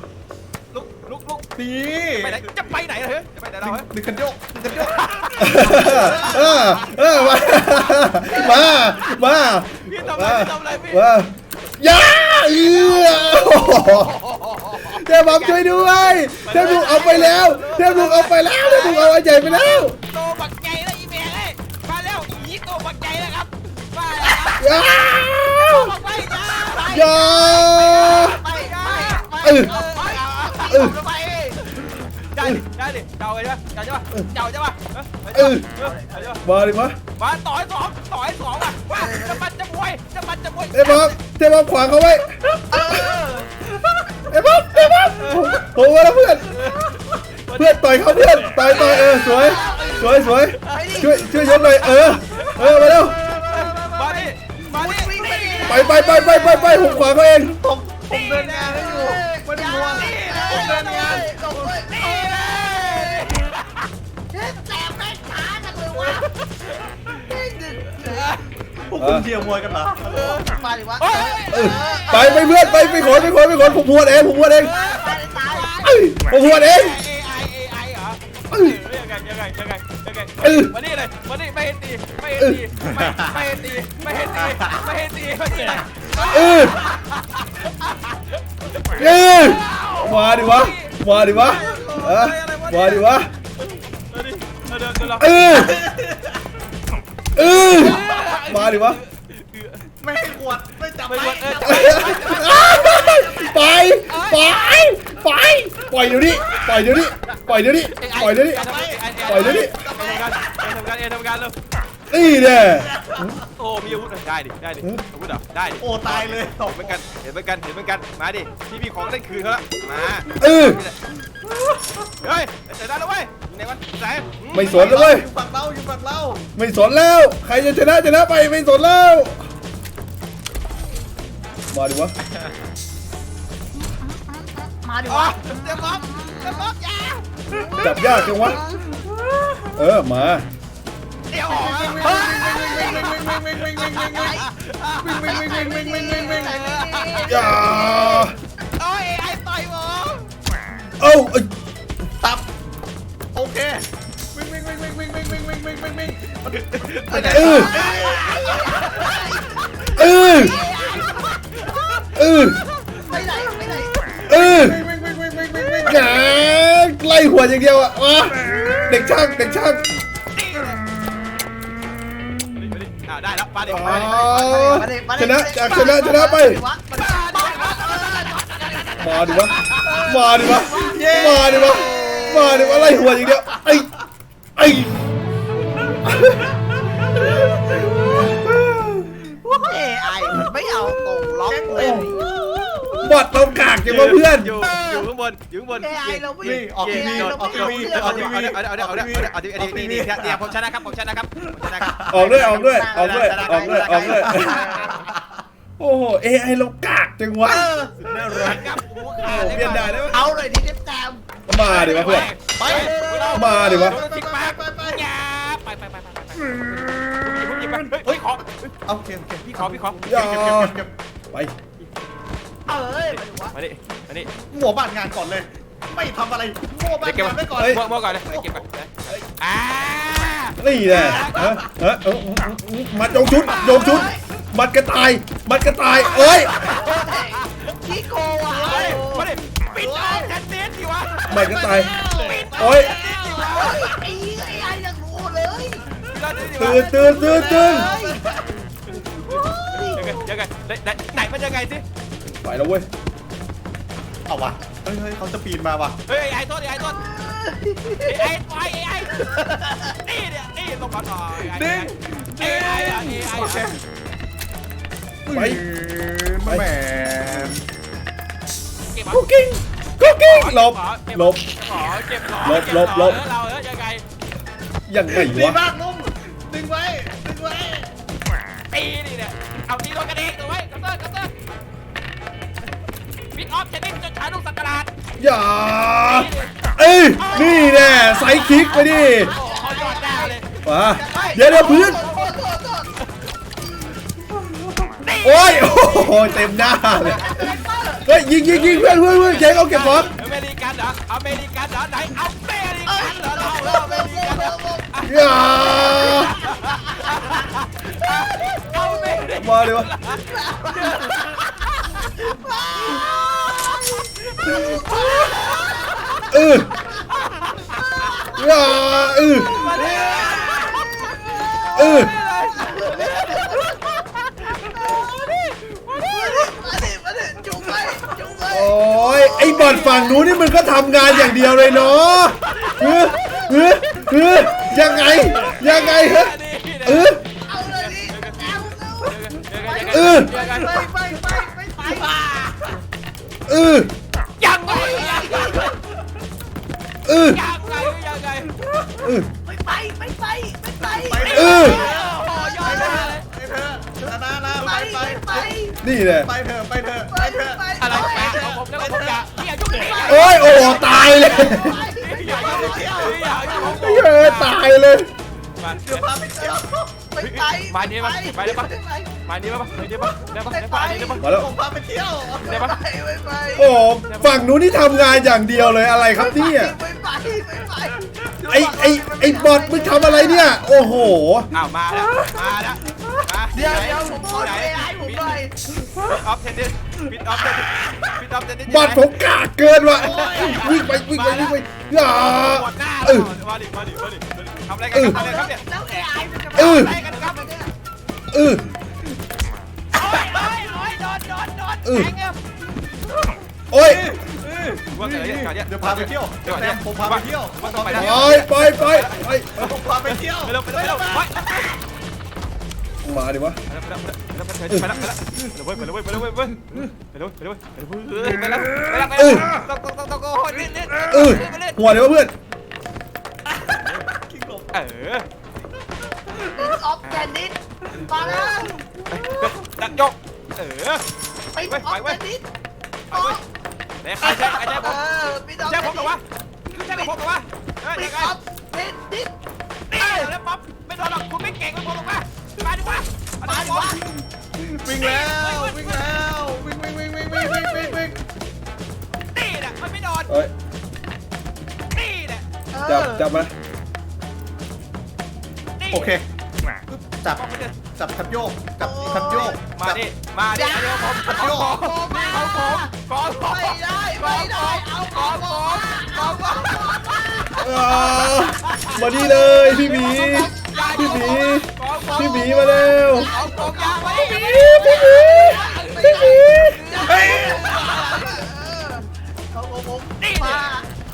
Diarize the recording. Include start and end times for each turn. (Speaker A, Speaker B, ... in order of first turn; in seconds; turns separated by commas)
Speaker A: 0.7-1.5, Speaker B: 1.6-2.4, Speaker A: 2.2-3.9, Speaker B: 3.6-6.6, Speaker A: 4.7-9.1, Speaker C: 5.4-14.2, Speaker A: 9.8-11.1, Speaker A: 12.4-15.9, Speaker C: 14.9-20.0, Speaker A: 16.4-24.9, Speaker C: 24.5-26.0, Speaker A: 25.4-27.1, Speaker D: 26.4-31.6, Speaker C: 26.9-28.4, Speaker A: 27.7-30.8, Speaker C: 29.4-29.7, Speaker C: 30.7-30.9, Speaker A: 31.7-36.4, Speaker C: 35.3-35.7, Speaker D: 35.8-36.3, Speaker C: 36.4-37.0, Speaker A: 37.2-41.2, Speaker D: 38.9-39.4, Speaker C: 40.7-43.0, Speaker D: 42.7-43.5, Speaker C: 44.1-46.6, Speaker A: 45.1-45.6, Speaker A: 46.5-49.1, Speaker C: 47.6-53.2, Speaker D: 48.7-51.9, Speaker A: 50.6-50.9, Speaker A: 51.7-52.6, Speaker B: 52.8-54.2, Speaker A: 53.4-55.9, Speaker D: 54.0-57.1, Speaker C: 55.6-57.6, Speaker B: 57.6-61.7, Speaker A: 58.1-58.8, Speaker D: 58.5-63.3, Speaker A: 59.9-60.8, Speaker A: 61.9-63.8, Speaker D: 64.3-66.3, Speaker A: 66.1-66.7, Speaker D: 67.3-68.4, Speaker A: 68.0-68.4, Speaker B: 68.9-70.4, Speaker C: 69.0-69.3, Speaker D: 70.0-73.4, Speaker A: 70.1-70.5, Speaker A: 71.0-72.7, Speaker C: 71.5-74.7, Speaker D: 74.6-75.9, Speaker A: 74.6-95.7, Speaker C: 75.8-77.0, Speaker C: 80.4-80.7, Speaker B: 82.9-83.4, Speaker B: 84.4-84.7, Speaker C: 86.3-86.8, Speaker C: 88.9-93.3, Speaker C: 95.2-95.8, Speaker B: 95.5-96.4, Speaker C: 97.4-99.0, Speaker A: 97.5-99.9, Speaker B: 100.0-103.3, Speaker A: 101.1-103.1, Speaker C: 101.6-108.6, Speaker A: 104.0-104.9, Speaker A: 107.9-111.5, Speaker B: 108.5-110.7, Speaker C: 109.2-109.8, Speaker C: 112.1-113.4, Speaker B: 112.6-113.5, Speaker A: 113.6-121.0, Speaker B: 115.8-117.0, Speaker C: 120.4-120.8, Speaker A: 122.2-124.7, Speaker C: 124.5-125.3, Speaker B: 124.5-126.5, Speaker C: 126.6-129.4, Speaker C: 131.7-132.1, Speaker D: 133.8-136.8, Speaker A: 135.1-137.2, Speaker D: 137.5-138.9, Speaker C: 137.8-138.6, Speaker C: 139.8-140.5, Speaker A: 141.3-145.5, Speaker B: 141.5-144.4, Speaker D: 141.9-143.2, Speaker D: 144.1-144.5, Speaker B: 145.0-146.6, Speaker D: 145.2-148.2, Speaker A: 146.2-147.7, Speaker C: 147.3-148.4, Speaker A: 148.8-150.3, Speaker C: 151.0-151.5, Speaker B: 152.2-152.5, Speaker B: 153.3-159.2, Speaker A: 156.5-159.6, Speaker C: 157.3-157.8, Speaker D: 157.7-162.1, Speaker C: 159.9-160.6, Speaker A: 161.7-163.4, Speaker C: 162.1-162.6, Speaker D: 163.0-164.2, Speaker B: 164.2-166.4, Speaker C: 164.3-164.8, Speaker C: 165.8-169.9, Speaker B: 168.4-168.9, Speaker A: 170.3-170.8, Speaker A: 172.6-174.5, Speaker C: 173.7-176.6, Speaker D: 174.0-178.5, Speaker A: 176.9-180.6, Speaker C: 179.0-183.9, Speaker B: 179.8-183.8, Speaker D: 180.1-182.8, Speaker C: 184.6-185.0, Speaker C: 186.0-186.6, Speaker B: 187.0-188.3, Speaker C: 188.1-189.1, Speaker B: 189.3-189.8, Speaker D: 189.5-192.4, Speaker B: 191.5-193.1, Speaker C: 191.7-192.1, Speaker C: 193.0-194.6, Speaker A: 193.8-204.9, Speaker D: 194.6-195.0, Speaker D: 195.8-198.5, Speaker B: 196.4-200.5, Speaker B: 201.6-202.2, Speaker C: 202.1-204.7, Speaker D: 202.2-205.1, Speaker B: 204.3-205.4, Speaker C: 205.8-207.7, Speaker B: 207.4-208.7, Speaker A: 208.0-210.2, Speaker C: 209.2-210.3, Speaker D: 210.1-211.2, Speaker C: 211.5-212.3, Speaker A: 211.7-218.7, Speaker B: 212.5-215.1, Speaker D: 212.6-213.7, Speaker C: 213.3-214.0, Speaker B: 216.5-218.2, Speaker B: 218.9-220.9, Speaker A: 219.4-220.0, Speaker C: 220.1-220.8, Speaker D: 222.7-223.6, Speaker A: 223.1-224.3, Speaker B: 224.5-228.6, Speaker A: 227.0-231.6, Speaker C: 227.6-227.8, Speaker C: 230.6-236.7, Speaker D: 233.6-234.2, Speaker D: 235.9-239.3, Speaker A: 236.8-237.8, Speaker B: 238.5-240.4, Speaker A: 238.5-243.9, Speaker C: 241.3-242.0, Speaker B: 241.3-243.0, Speaker C: 242.6-242.9, Speaker D: 243.0-245.9, Speaker A: 246.1-246.9, Speaker C: 246.6-247.9, Speaker D: 247.0-248.3, Speaker B: 247.1-248.4, Speaker D: 249.0-250.2, Speaker A: 249.9-251.8, Speaker C: 252.4-252.9, Speaker B: 254.3-256.0, Speaker A: 256.1-257.0, Speaker D: 257.0-258.3, Speaker A: 258.0-263.8, Speaker B: 261.4-263.8, Speaker B: 265.2-267.6, Speaker C: 265.3-265.6, Speaker A: 268.9-269.2, Speaker C: 269.1-271.4, Speaker A: 270.2-274.0, Speaker C: 272.4-273.2, Speaker C: 274.9-275.6, Speaker B: 275.1-277.9, Speaker A: 278.7-281.3, Speaker A: 283.3-284.9, Speaker C: 285.2-289.3, Speaker A: 286.0-288.3, Speaker D: 287.3-292.9, Speaker A: 289.3-290.5, Speaker C: 290.6-292.0, Speaker A: 291.1-292.4, Speaker A: 295.0-297.4, Speaker C: 295.2-297.5, Speaker D: 297.0-298.1, Speaker C: 298.1-300.2, Speaker A: 298.5-312.1, Speaker D: 302.9-304.9, Speaker C: 305.0-306.4, Speaker D: 305.6-307.2, Speaker D: 308.7-309.3, Speaker C: 309.4-309.9, Speaker D: 310.1-311.4, Speaker D: 312.0-313.8, Speaker A: 312.8-313.9, Speaker A: 314.4-316.3, Speaker D: 314.4-316.6, Speaker C: 316.3-316.7, Speaker A: 317.1-318.2, Speaker D: 318.1-318.5, Speaker C: 318.3-319.7, Speaker A: 319.4-323.8, Speaker D: 319.6-325.1, Speaker C: 321.8-322.1, Speaker A: 324.6-326.4, Speaker D: 325.9-330.4, Speaker C: 328.5-337.2, Speaker D: 331.2-331.5, Speaker A: 332.4-333.6, Speaker A: 334.3-340.8, Speaker D: 337.5-342.5, Speaker C: 339.9-340.4, Speaker B: 340.5-340.9, Speaker C: 343.5-343.9, Speaker A: 344.4-345.8, Speaker D: 344.7-345.7, Speaker C: 347.1-347.4, Speaker A: 347.3-348.6, Speaker C: 349.0-349.3, Speaker D: 349.4-353.1, Speaker B: 350.8-355.6, Speaker A: 351.2-353.2, Speaker C: 351.3-351.8, Speaker D: 354.6-355.8, Speaker C: 355.8-356.3, Speaker B: 356.2-359.4, Speaker D: 357.1-358.5, Speaker A: 357.8-360.8, Speaker D: 359.7-363.7, Speaker C: 360.1-361.8, Speaker A: 362.0-364.6, Speaker B: 362.2-363.5, Speaker C: 363.5-365.1, Speaker A: 365.6-366.1, Speaker B: 365.7-366.9, Speaker D: 367.1-369.1, Speaker A: 367.2-368.7, Speaker A: 369.2-371.2, Speaker D: 370.5-371.2, Speaker C: 371.2-371.5, Speaker B: 371.2-372.5, Speaker D: 372.4-373.8, Speaker A: 372.4-372.8, Speaker C: 373.6-376.8, Speaker A: 374.0-374.4, Speaker D: 376.1-380.7, Speaker C: 378.5-381.5, Speaker A: 381.5-385.4, Speaker D: 383.5-385.5, Speaker A: 386.1-389.1, Speaker C: 388.7-393.3, Speaker A: 389.9-395.6, Speaker B: 389.9-390.8, Speaker C: 394.9-395.2, Speaker D: 395.0-397.7, Speaker C: 396.6-396.9, Speaker A: 396.6-397.4, Speaker C: 398.3-398.7, Speaker A: 399.9-402.4, Speaker C: 401.9-402.1, Speaker C: 403.7-404.1, Speaker B: 403.8-408.4, Speaker A: 404.9-411.8, Speaker C: 407.9-409.6, Speaker B: 409.6-411.3, Speaker C: 413.0-413.6, Speaker A: 413.7-421.8, Speaker B: 418.6-419.6, Speaker C: 419.1-419.5, Speaker B: 420.8-421.1, Speaker C: 421.1-422.3, Speaker B: 423.5-424.7, Speaker A: 424.7-425.3, Speaker B: 426.3-426.6, Speaker D: 426.5-428.8, Speaker A: 429.1-431.0, Speaker D: 431.5-432.5, Speaker A: 431.6-432.2, Speaker A: 433.1-433.4, Speaker D: 433.1-433.4, Speaker A: 434.0-435.0, Speaker D: 434.2-436.2, Speaker B: 434.2-434.9, Speaker A: 435.6-438.3, Speaker D: 436.7-437.1, Speaker D: 437.9-439.3, Speaker A: 439.9-444.0, Speaker D: 439.9-440.3, Speaker D: 443.4-444.1, Speaker B: 444.6-448.2, Speaker A: 444.9-445.9, Speaker A: 449.3-450.3, Speaker A: 451.9-452.5, Speaker D: 452.7-453.4, Speaker C: 452.9-453.5, Speaker A: 455.8-456.2, Speaker B: 455.9-456.3, Speaker B: 456.9-460.1, Speaker A: 457.3-457.8, Speaker D: 458.8-459.6, Speaker A: 459.7-466.9, Speaker D: 460.5-471.4, Speaker B: 461.2-461.8, Speaker C: 467.6-473.3, Speaker A: 468.7-469.0, Speaker A: 469.7-472.7, Speaker D: 472.2-480.9, Speaker A: 473.2-478.3, Speaker C: 474.1-476.8, Speaker B: 477.1-477.8, Speaker A: 480.2-480.7